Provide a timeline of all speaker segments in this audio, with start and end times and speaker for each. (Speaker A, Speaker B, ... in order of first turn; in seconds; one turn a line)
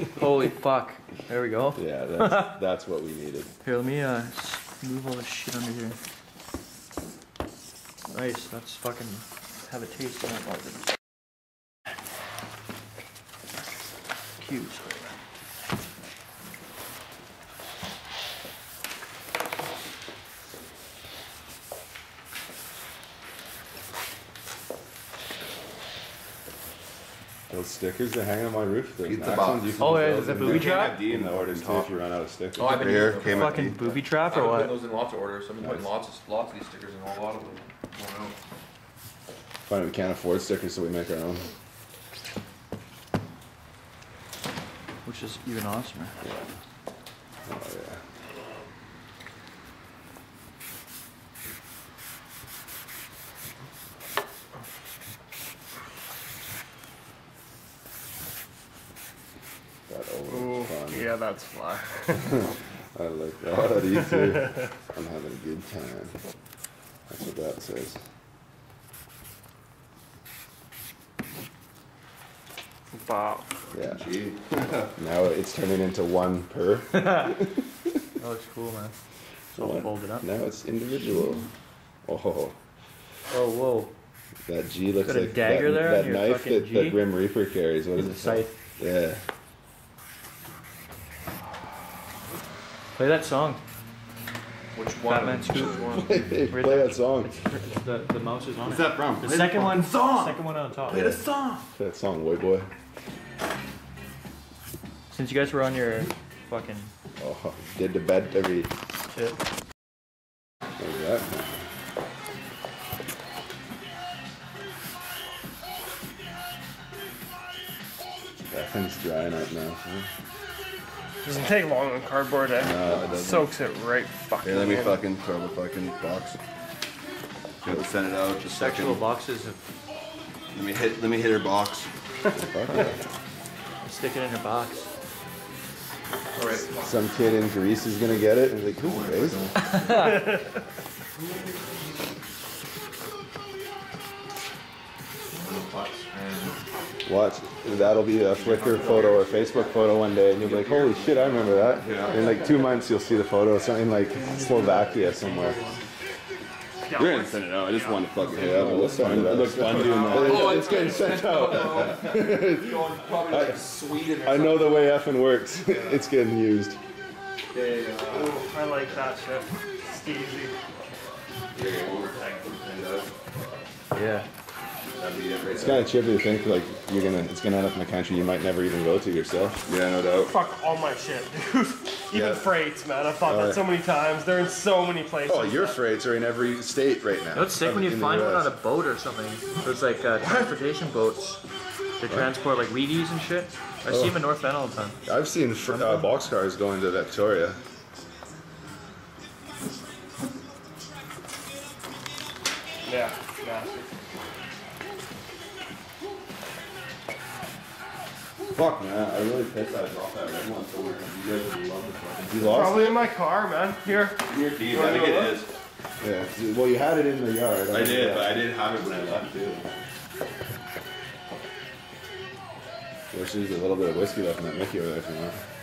Speaker A: 0.1-2.6
Speaker B: 1.8-3.5
Speaker A: 3.6-6.0
Speaker A: 8.1-10.8
Speaker A: 14.4-15.1
Speaker B: 27.5-32.8
Speaker C: 29.0-32.0
Speaker A: 29.8-31.0
Speaker C: 32.6-33.8
Speaker D: 32.6-38.3
Speaker A: 33.3-34.8
Speaker B: 39.7-41.5
Speaker A: 45.0-46.1
Speaker B: 47.5-48.0
Speaker B: 59.9-61.1
Speaker E: 60.3-62.3
Speaker B: 62.1-66.2
Speaker E: 64.0-64.3
Speaker B: 67.1-68.0
Speaker E: 72.9-73.5
Speaker C: 73.7-74.9
Speaker B: 73.7-74.1
Speaker B: 75.0-77.9
Speaker A: 78.2-79.0
Speaker A: 79.5-80.3
Speaker B: 79.5-81.5
Speaker B: 82.1-82.5
Speaker A: 83.3-83.9
Speaker B: 84.5-89.2
Speaker A: 85.0-87.0
Speaker A: 88.0-88.5
Speaker A: 93.0-93.6
Speaker D: 94.8-96.2
Speaker A: 95.0-101.2
Speaker B: 95.9-97.3
Speaker C: 98.6-101.7
Speaker B: 101.8-102.7
Speaker A: 105.1-106.9
Speaker B: 107.2-108.7
Speaker A: 109.1-109.4
Speaker B: 110.8-111.6
Speaker B: 118.5-120.1
Speaker E: 121.2-125.0
Speaker B: 122.6-123.2
Speaker C: 122.6-123.5
Speaker C: 124.4-126.4
Speaker C: 127.6-129.1
Speaker A: 128.4-129.6
Speaker C: 130.5-131.9
Speaker B: 132.3-133.0
Speaker A: 133.9-134.9
Speaker D: 136.3-136.9
Speaker B: 136.8-139.4
Speaker C: 138.7-140.2
Speaker A: 139.7-140.3
Speaker E: 139.9-140.5
Speaker C: 145.3-146.6
Speaker B: 147.1-155.6
Speaker C: 147.7-152.8
Speaker A: 154.1-155.8
Speaker E: 156.8-158.6
Speaker C: 156.9-162.2
Speaker B: 158.3-163.7
Speaker E: 159.8-160.9
Speaker D: 160.1-164.8
Speaker B: 164.2-166.8
Speaker C: 167.5-168.9
Speaker E: 168.1-170.5
Speaker C: 171.5-173.1
Speaker A: 173.9-174.2
Speaker C: 174.9-175.9
Speaker B: 175.5-179.6
Speaker C: 179.7-180.3
Speaker E: 180.2-185.8
Speaker B: 183.2-183.7
Speaker B: 185.2-188.5
Speaker A: 187.3-191.4
Speaker A: 192.0-195.0
Speaker B: 193.9-194.2
Speaker B: 195.1-197.6
Speaker A: 195.6-196.1
Speaker E: 202.9-203.9
Speaker C: 208.6-212.7
Speaker B: 212.3-213.0
Speaker E: 212.5-215.4
Speaker C: 214.0-215.5
Speaker B: 216.0-218.4
Speaker C: 217.7-219.7
Speaker B: 223.1-225.4